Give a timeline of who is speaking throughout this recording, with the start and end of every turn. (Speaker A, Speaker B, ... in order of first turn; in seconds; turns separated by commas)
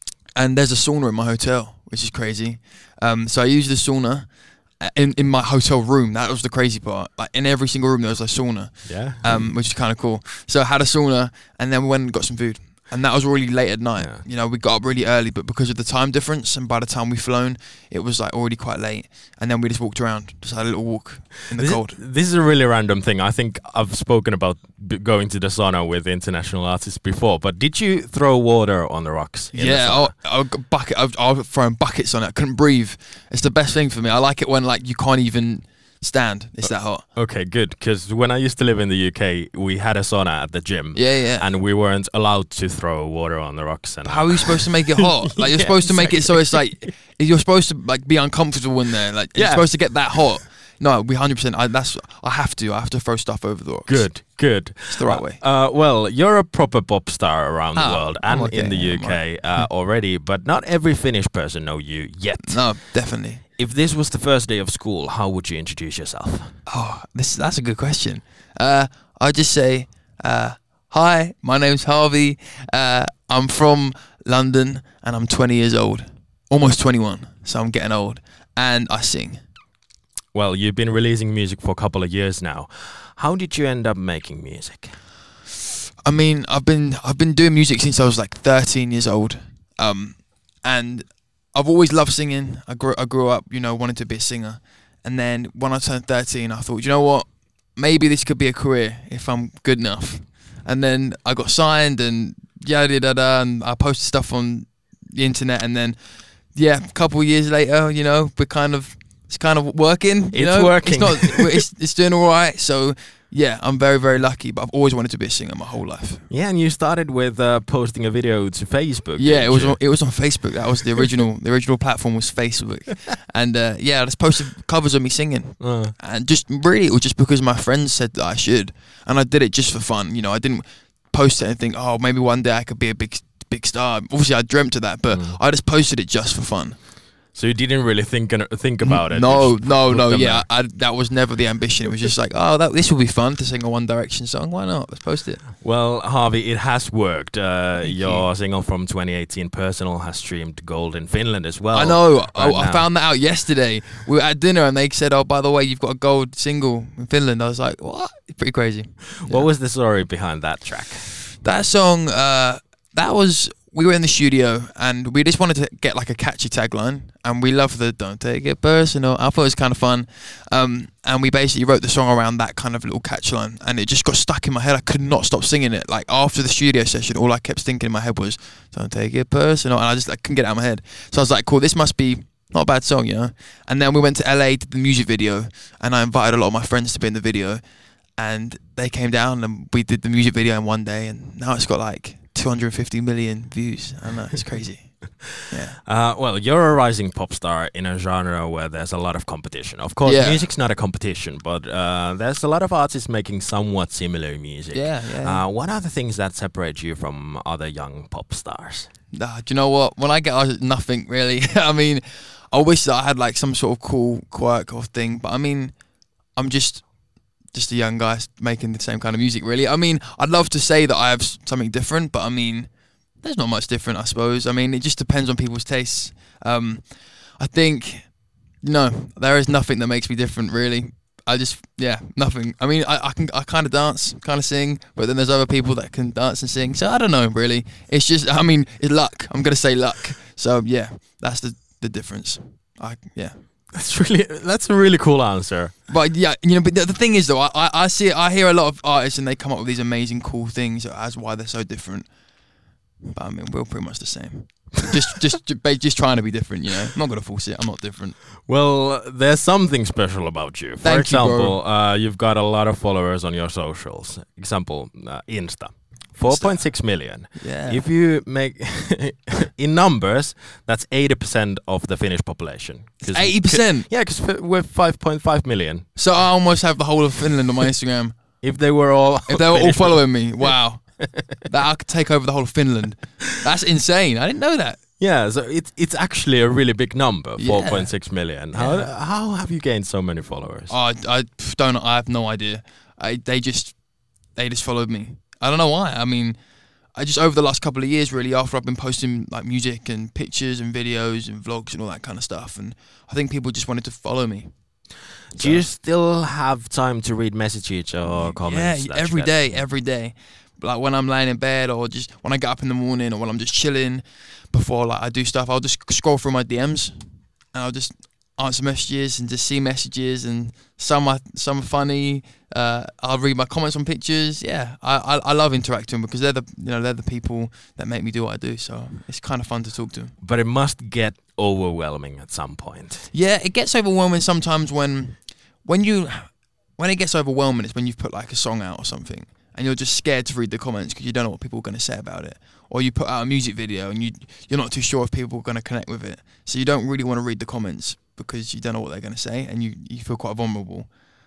Speaker A: 0.3-22.0, Speaker B: 8.8-9.5, Speaker B: 14.0-14.2, Speaker B: 21.5-30.1, Speaker A: 29.5-37.1, Speaker B: 36.6-46.9, Speaker A: 40.9-41.5, Speaker A: 44.0-55.4, Speaker B: 49.4-50.2, Speaker B: 53.9-66.5, Speaker A: 57.7-59.7, Speaker A: 62.4-63.4, Speaker A: 66.7-79.4, Speaker B: 80.3-85.0, Speaker A: 86.0-116.3, Speaker B: 110.3-111.7, Speaker B: 116.3-120.4, Speaker A: 119.2-136.8, Speaker B: 125.6-125.9, Speaker B: 135.1-135.4, Speaker B: 137.3-140.5, Speaker A: 138.8-145.5, Speaker B: 145.6-152.9, Speaker A: 147.8-148.3, Speaker A: 151.7-159.5, Speaker B: 159.3-161.1, Speaker A: 161.4-187.6, Speaker A: 188.2-195.8, Speaker B: 195.9-208.9, Speaker A: 200.0-200.5, Speaker A: 204.7-205.4, Speaker A: 209.1-215.8, Speaker A: 216.3-216.9, Speaker A: 217.5-243.5, Speaker B: 243.7-245.8, Speaker A: 245.9-252.1, Speaker A: 253.0-258.2, Speaker B: 258.5-275.9, Speaker A: 260.8-261.6, Speaker A: 266.2-267.9, Speaker A: 273.0-273.9, Speaker A: 275.9-278.3, Speaker B: 278.4-281.2, Speaker A: 279.3-284.8, Speaker B: 285.0-290.7, Speaker A: 287.4-288.9, Speaker A: 290.7-296.4, Speaker A: 296.9-304.5, Speaker A: 305.3-305.7, Speaker B: 305.3-309.6, Speaker A: 308.1-330.2, Speaker B: 330.2-333.1, Speaker A: 333.1-350.9